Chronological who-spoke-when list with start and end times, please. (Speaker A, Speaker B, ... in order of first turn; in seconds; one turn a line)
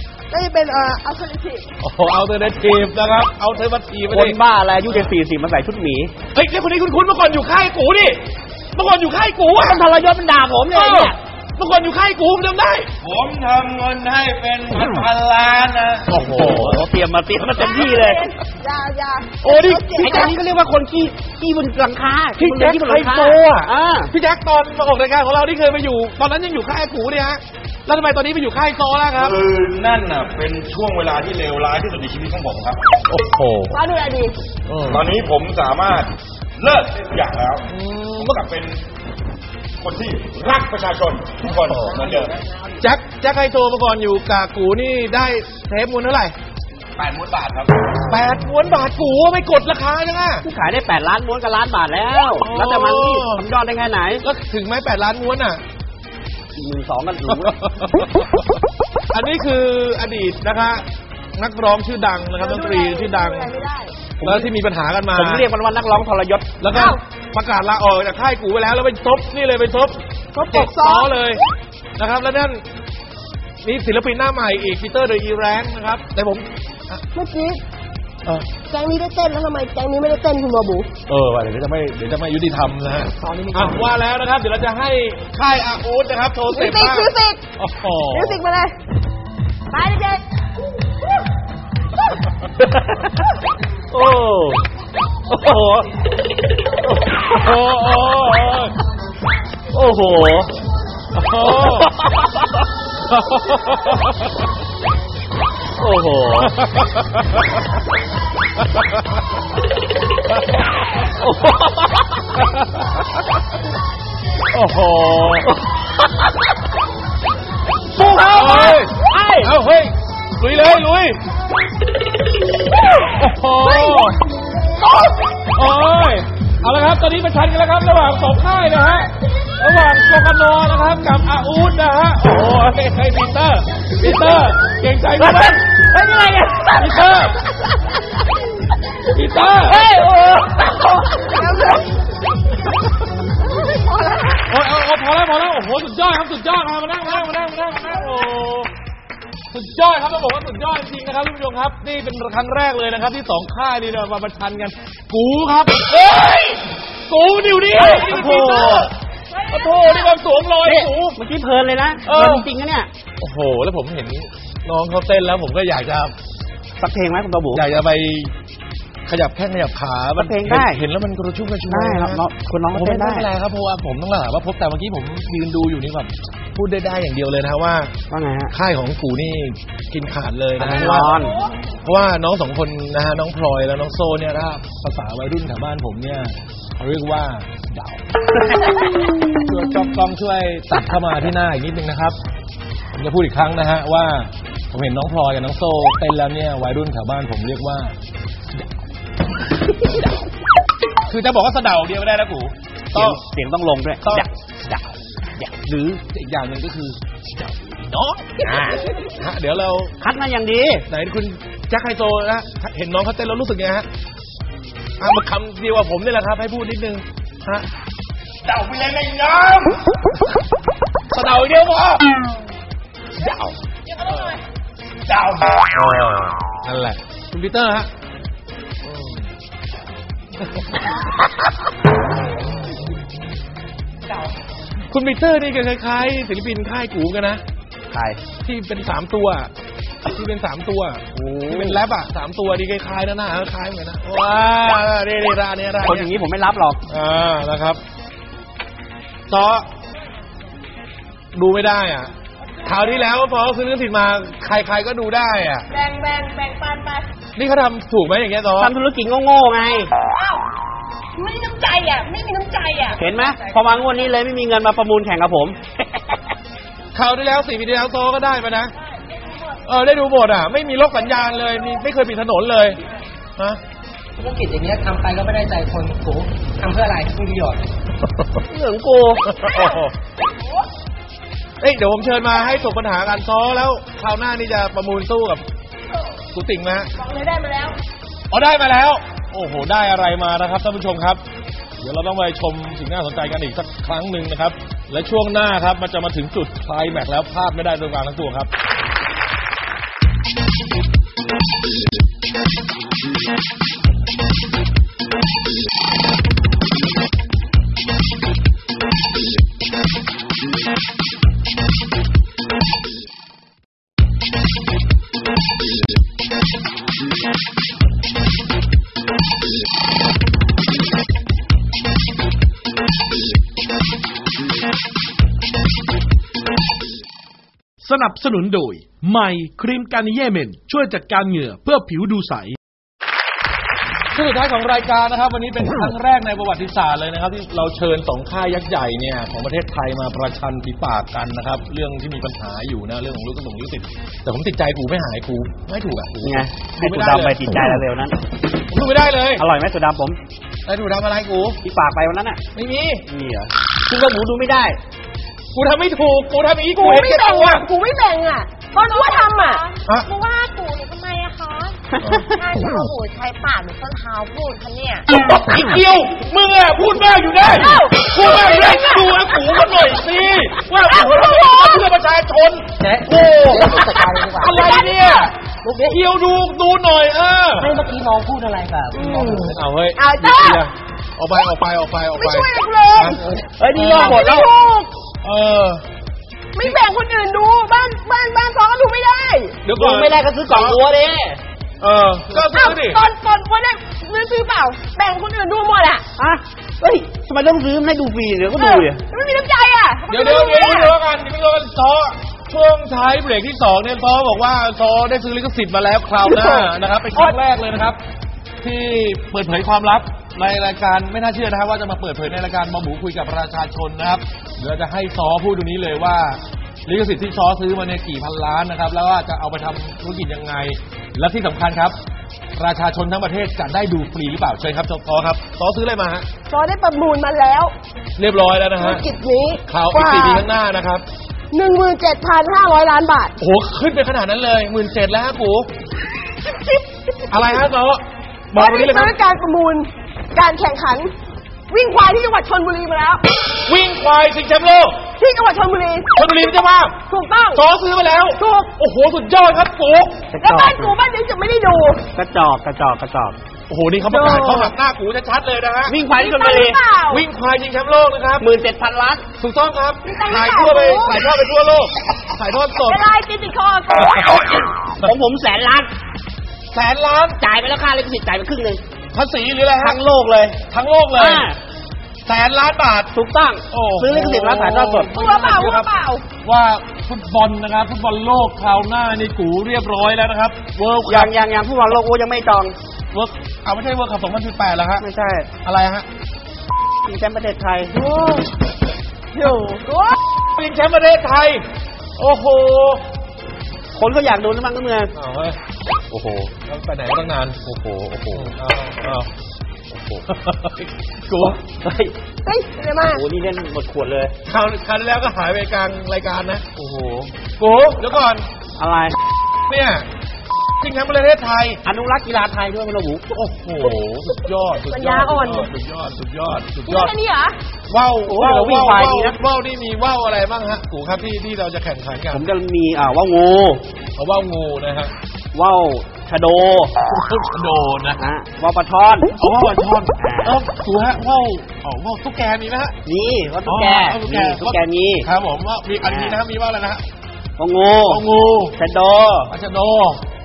Speaker A: 0.3-1.6
Speaker B: 1.8-5.1
Speaker C: 4.1-6.1
Speaker B: 6.3-9.9
Speaker C: 9.5-11.2
Speaker B: 10.7-12.9
Speaker D: 13.0-16.6
Speaker B: 16.1-16.9
Speaker C: 16.1-18.3
Speaker A: 17.5-20.4
Speaker B: 19.4-20.4
Speaker C: 20.0-24.1
Speaker B: 22.4-29.4
Speaker D: 29.2-32.8
Speaker B: 33.1-33.8
Speaker A: 33.7-34.4
Speaker B: 34.7-35.1
Speaker D: 34.8-37.7
Speaker B: 37.7-38.5
Speaker D: 38.2-38.8
Speaker D: 39.8-42.4
Speaker B: 41.7-42.0
Speaker E: 41.7-42.8
Speaker B: 42.8-46.4
Speaker D: 47.0-47.9
Speaker B: 48.1-50.5
Speaker C: 50.4-54.2
Speaker B: 52.4-53.5
Speaker B: 54.2-55.6
Speaker C: 56.6-57.6
Speaker B: 57.3-58.4
Speaker B: 59.1-63.5
Speaker A: 62.4-63.9
Speaker C: 64.2-64.5
Speaker B: 64.2-65.5
Speaker C: 65.1-66.5
Speaker B: 66.6-71.4
Speaker A: 66.7-67.0
Speaker A: 70.3-71.1
Speaker B: 72.0-72.6
Speaker B: 73.6-77.0
Speaker A: 77.1-77.6
Speaker B: 78.2-78.5
Speaker A: 78.6-80.9
Speaker B: 81.1-88.4
Speaker E: 83.2-83.8
Speaker A: 86.5-87.4
Speaker A: 88.1-88.8
Speaker A: 89.7-90.2
Speaker C: 92.6-93.2
Speaker C: 93.9-94.6
Speaker C: 95.3-95.9
Speaker B: 96.9-98.8
Speaker C: 99.7-100.5
Speaker B: 101.2-101.9
Speaker C: 101.4-102.5
Speaker B: 103.1-104.3
Speaker C: 105.8-106.6
Speaker B: 106.4-107.5
Speaker C: 111.2-112.1
Speaker B: 112.4-113.0
Speaker B: 114.5-115.6
Speaker B: 117.9-121.2
Speaker C: 118.0-119.5
Speaker B: 123.1-124.2
Speaker A: 123.8-124.1
Speaker A: 124.8-125.4
Speaker B: 125.5-135.7
Speaker C: 135.2-137.0
Speaker B: 136.8-137.4
Speaker B: 139.1-139.9
Speaker C: 139.7-140.9
Speaker A: 141.2-141.9
Speaker A: 143.5-144.4
Speaker B: 144.4-148.7
Speaker B: 149.5-158.9
Speaker A: 157.8-160.2
Speaker C: 157.8-158.9
Speaker B: 159.5-161.2
Speaker C: 160.6-162.9
Speaker B: 162.1-162.5
Speaker B: 163.2-166.2
Speaker C: 166.8-167.6
Speaker B: 167.5-168.3
Speaker B: 169.1-177.9
Speaker C: 170.2-170.8
Speaker C: 171.7-173.3
Speaker C: 178.1-178.5
Speaker B: 178.5-181.2
Speaker C: 180.6-181.4
Speaker A: 181.1-181.5
Speaker B: 181.8-188.0
Speaker B: 189.4-192.2
Speaker B: 192.9-198.0
Speaker B: 201.1-203.2
Speaker C: 202.9-204.8
Speaker B: 204.0-204.8
Speaker C: 205.4-206.0
Speaker B: 206.1-209.9
Speaker C: 208.4-208.9
Speaker C: 210.0-210.9
Speaker B: 210.9-213.9
Speaker B: 215.0-217.7
Speaker D: 218.4-219.8
Speaker B: 221.1-222.1
Speaker D: 223.2-223.5
Speaker B: 224.0-224.4
Speaker D: 225.1-225.7
Speaker B: 225.7-227.9
Speaker B: 228.8-229.3
Speaker B: 230.4-231.0
Speaker B: 234.9-237.4
Speaker C: 237.9-238.2
Speaker B: 238.4-239.5
Speaker B: 240.0-246.1
Speaker C: 241.2-241.8
Speaker C: 245.8-246.8
Speaker B: 246.9-247.8
Speaker B: 249.3-249.7
Speaker B: 251.3-252.1
Speaker B: 252.6-255.7
Speaker A: 255.7-257.1
Speaker B: 257.4-258.7
Speaker C: 258.6-259.9
Speaker A: 260.1-260.5
Speaker A: 261.2-263.5
Speaker C: 263.0-265.6
Speaker B: 266.9-268.7
Speaker B: 269.7-272.8
Speaker E: 274.2-277.6
Speaker C: 278.5-279.2
Speaker B: 279.2-279.9
Speaker A: 279.3-280.7
Speaker B: 281.6-285.4
Speaker B: 286.3-286.9
Speaker A: 287.0-287.8
Speaker B: 288.3-291.2
Speaker B: 291.8-298.5
Speaker F: 327.8-332.6
Speaker B: 334.1-347.5
Speaker C: 346.2-348.2
Speaker B: 348.7-349.5
Speaker C: 349.4-350.2
Speaker B: 350.7-351.6
Speaker C: 351.6-352.4
Speaker B: 352.5-353.1
Speaker C: 353.1-354.8
Speaker B: 355.5-357.7
Speaker A: 356.8-359.6
Speaker G: 358.7-365.1
Speaker B: 365.1-377.8
Speaker A: 367.5-369.2
Speaker A: 370.9-371.8
Speaker E: 372.8-374.7
Speaker A: 374.4-375.3
Speaker E: 375.6-376.0
Speaker E: 377.6-379.6
Speaker A: 378.9-380.6
Speaker B: 379.3-383.2
Speaker A: 382.2-383.2
Speaker C: 383.6-384.5
Speaker B: 383.7-384.3
Speaker A: 383.8-384.9
Speaker B: 385.2-385.9
Speaker A: 386.6-389.6
Speaker B: 389.7-390.8
Speaker C: 389.7-391.4
Speaker B: 391.8-393.0
Speaker A: 392.4-396.0
Speaker C: 396.2-399.0
Speaker A: 398.5-400.9
Speaker B: 400.1-408.0
Speaker C: 406.2-407.3
Speaker B: 408.6-422.0
Speaker B: 422.5-426.3
Speaker A: 426.5-427.7
Speaker B: 428.2-429.1
Speaker A: 428.8-430.5
Speaker B: 429.7-431.1
Speaker A: 431.5-433.4
Speaker B: 433.4-435.7
Speaker A: 436.4-437.2
Speaker B: 437.3-439.2
Speaker A: 438.5-441.1
Speaker A: 441.7-443.2
Speaker B: 443.6-445.1
Speaker A: 445.2-446.3
Speaker B: 446.1-447.0
Speaker A: 447.1-447.6
Speaker B: 447.6-450.3
Speaker A: 448.4-448.7
Speaker C: 450.3-451.0
Speaker A: 450.4-452.0
Speaker C: 452.1-453.4
Speaker B: 453.7-456.0
Speaker A: 454.1-454.5
Speaker C: 454.1-454.7
Speaker C: 455.9-456.8
Speaker A: 456.2-457.2
Speaker B: 457.1-458.5
Speaker C: 458.4-459.2
Speaker B: 459.4-463.1
Speaker A: 460.1-461.2
Speaker A: 462.8-464.7
Speaker B: 464.0-465.1
Speaker C: 464.9-465.9
Speaker B: 466.7-467.4
Speaker C: 467.4-468.8
Speaker B: 469.1-470.0
Speaker C: 469.8-470.6
Speaker B: 470.7-471.5
Speaker C: 471.2-471.6
Speaker B: 472.3-473.1
Speaker C: 473.1-475.1
Speaker B: 473.7-475.9
Speaker A: 475.1-476.2
Speaker B: 476.4-481.3
Speaker C: 481.1-482.8
Speaker B: 483.1-485.1
Speaker C: 485.0-485.5
Speaker B: 485.6-486.1
Speaker C: 487.1-488.0
Speaker A: 488.0-488.4
Speaker A: 489.3-490.2
Speaker B: 490.5-491.7
Speaker B: 492.2-493.0
Speaker C: 493.9-495.1
Speaker B: 495.1-495.6
Speaker C: 496.1-496.5
Speaker B: 496.6-497.6
Speaker C: 497.6-498.5
Speaker B: 498.3-499.3
Speaker C: 499.9-500.3
Speaker B: 500.3-501.6
Speaker C: 501.6-502.2
Speaker A: 502.4-503.2
Speaker C: 503.1-504.4
Speaker B: 504.5-506.7
Speaker C: 506.8-507.3
Speaker B: 507.6-508.5
Speaker C: 508.8-509.2
Speaker B: 509.7-510.1
Speaker B: 510.8-511.8
Speaker C: 511.9-513.2
Speaker B: 513.3-517.2
Speaker A: 514.9-515.7
Speaker A: 516.9-517.6
Speaker B: 517.9-522.5
Speaker C: 518.3-519.4
Speaker C: 522.3-523.8
Speaker B: 524.2-525.1
Speaker C: 525.5-526.9
Speaker B: 527.0-528.2
Speaker C: 528.2-529.3
Speaker B: 529.4-533.0
Speaker C: 530.2-530.6
Speaker C: 533.0-535.3
Speaker B: 533.7-537.0
Speaker C: 536.0-536.4
Speaker C: 537.6-538.2
Speaker B: 538.0-538.8
Speaker C: 538.8-539.5
Speaker B: 539.5-540.2